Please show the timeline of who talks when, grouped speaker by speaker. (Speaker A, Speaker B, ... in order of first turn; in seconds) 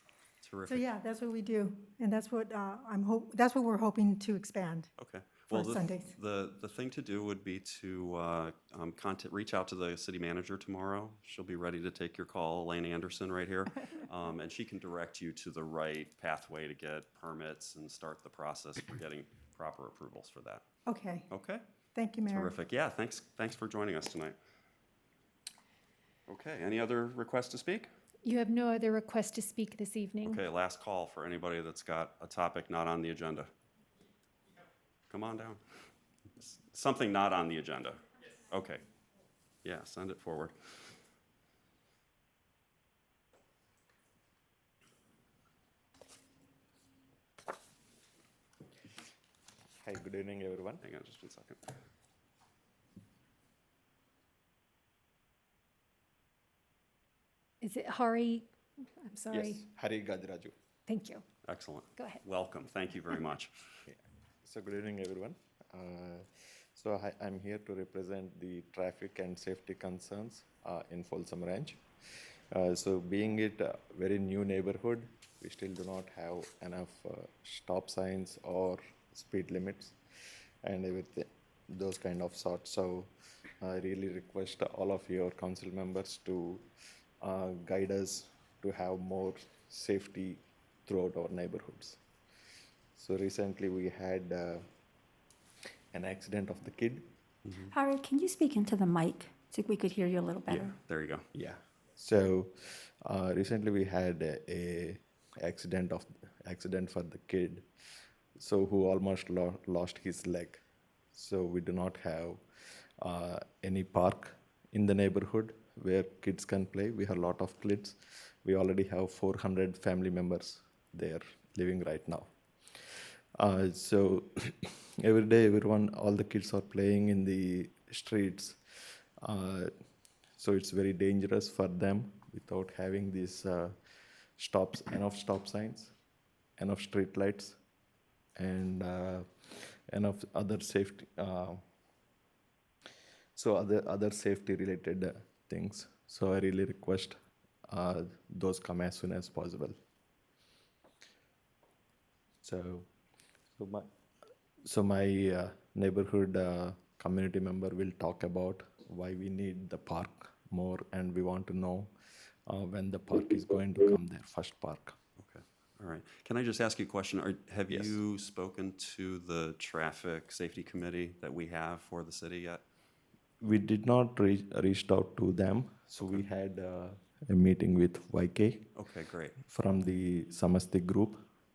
Speaker A: 0.4-0.9, 5.0-20.6, 21.3-21.6, 22.3-24.3, 26.3-27.9, 30.2-33.5, 35.1-35.6, 36.4-38.8, 39.6-40.5, 50.8-51.7, 61.5-63.5, 100.8-101.2, 165.2-172.6, 178.7-179.4
Speaker B: 0.7-4.9, 5.5-6.1, 20.9-21.3, 21.9-22.5
Speaker C: 28.2-30.4, 57.6-58.5, 59.0-59.6, 60.9-61.2
Speaker D: 49.8-50.8, 59.3-60.5, 63.9-71.8, 72.5-80.0, 80.6-86.7, 87.2-92.0, 93.0-94.7, 95.9-97.1, 101.3-107.7, 108.4-110.6, 111.1-112.4, 113.0-122.3, 123.3-129.7, 130.4-133.8, 134.4-135.9, 136.6-137.6, 138.3-141.6, 143.3-147.2, 147.7-149.7, 152.4-152.9, 153.6-153.9, 154.6-161.9, 162.5-164.9, 167.7-167.9, 173.4-178.7, 179.5-181.2
Speaker E: 97.6-100.8